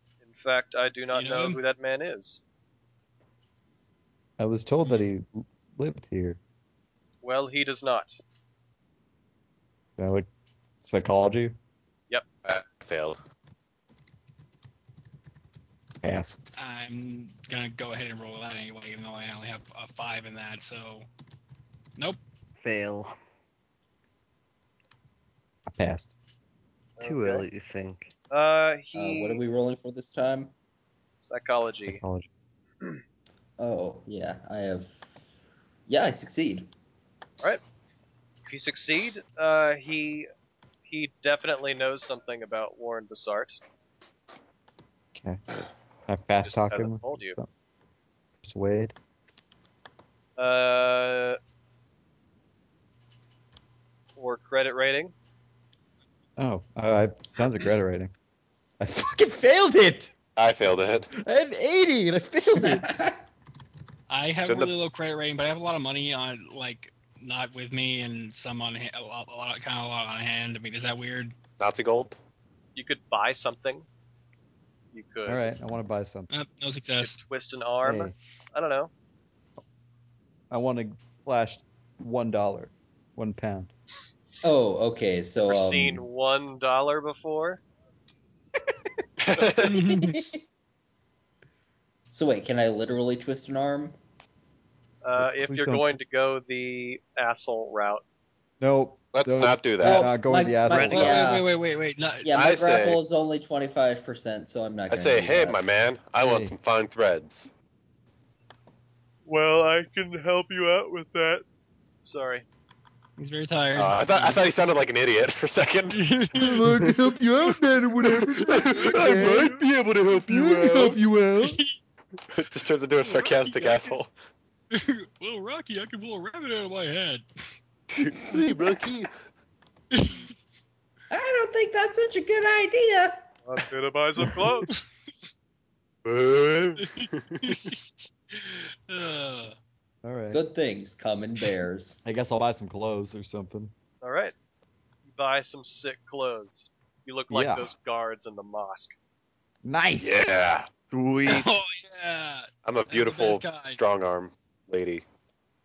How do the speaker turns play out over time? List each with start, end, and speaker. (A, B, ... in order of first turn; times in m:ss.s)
0:00.2-0:02.4 A
0:01.1-0:01.6 B
0:04.4-0:06.4 C
0:04.8-0:05.1 B
0:07.2-0:08.2 A
0:10.0-0:10.3 C
0:10.8-0:11.6 C
0:12.4-0:13.2 D
0:16.0-0:16.5 C
0:16.6-0:21.1 B
0:22.6-0:23.2 E
0:25.7-0:26.1 C
0:27.0-0:27.5 A
0:27.0-0:28.1 E
0:28.3-0:29.4 A
0:28.9-0:30.5 F
0:31.2-0:32.0 A
0:31.9-0:32.3 C
0:33.6-0:35.0 F
0:35.9-0:36.7 F
0:38.5-0:40.3 A
0:40.9-0:43.6 A
0:45.1-0:45.4 C
0:46.1-0:47.5 C
0:46.4-0:47.4 A
0:48.4-0:48.9 C
0:50.4-0:51.4 A
0:54.2-0:55.1 A
0:56.4-0:58.1 C
0:58.8-1:00.1 C
1:00.4-1:01.1 D
1:01.1-1:02.9 C
1:02.6-1:03.2 F
1:04.1-1:11.4 B
1:04.4-1:04.7 D
1:11.6-1:12.2 D
1:12.8-1:13.9 A
1:14.9-1:15.5 A
1:15.3-1:16.3 C
1:16.3-1:17.2 B
1:17.0-1:18.9 A
1:17.8-1:18.1 C
1:20.5-1:23.7 C
1:24.4-1:26.1 F
1:25.5-1:27.6 A
1:29.2-1:29.9 D
1:29.6-1:30.2 B
1:30.0-1:30.4 F
1:32.1-1:34.0 F
1:35.0-1:38.0 A
1:35.2-1:36.0 C
1:38.6-1:41.2 C
1:39.1-1:40.1 D
1:39.8-1:41.5 F
1:40.7-1:41.0 E
1:40.8-1:42.4 B
1:42.2-1:45.6 F
1:42.4-1:43.0 D
1:44.9-1:47.5 D
1:46.2-1:46.6 C
1:49.3-1:51.4 A
1:52.0-1:52.5 A
1:53.2-1:54.6 B
1:53.8-1:56.0 D
1:55.9-1:57.5 B
1:56.4-1:59.6 C
1:58.1-2:01.0 D
1:58.6-1:59.5 B
2:00.2-2:01.6 C
2:01.4-2:01.8 B
2:02.3-2:04.1 D
2:03.0-2:04.0 B
2:04.7-2:07.2 B
2:08.0-2:09.1 D
2:09.9-2:10.3 B
2:11.1-2:13.2 F
2:13.5-2:14.7 A
2:16.0-2:17.6 D
2:16.8-2:17.8 B
2:18.3-2:19.6 B
2:20.0-2:20.4 C
2:20.3-2:22.0 F
2:22.0-2:23.7 C
2:24.0-2:24.3 A
2:25.1-2:29.0 A
2:27.3-2:27.7 C
2:29.6-2:30.3 C
2:30.0-2:30.7 D
2:30.9-2:31.5 E
2:31.3-2:33.8 B
2:32.6-2:35.0 D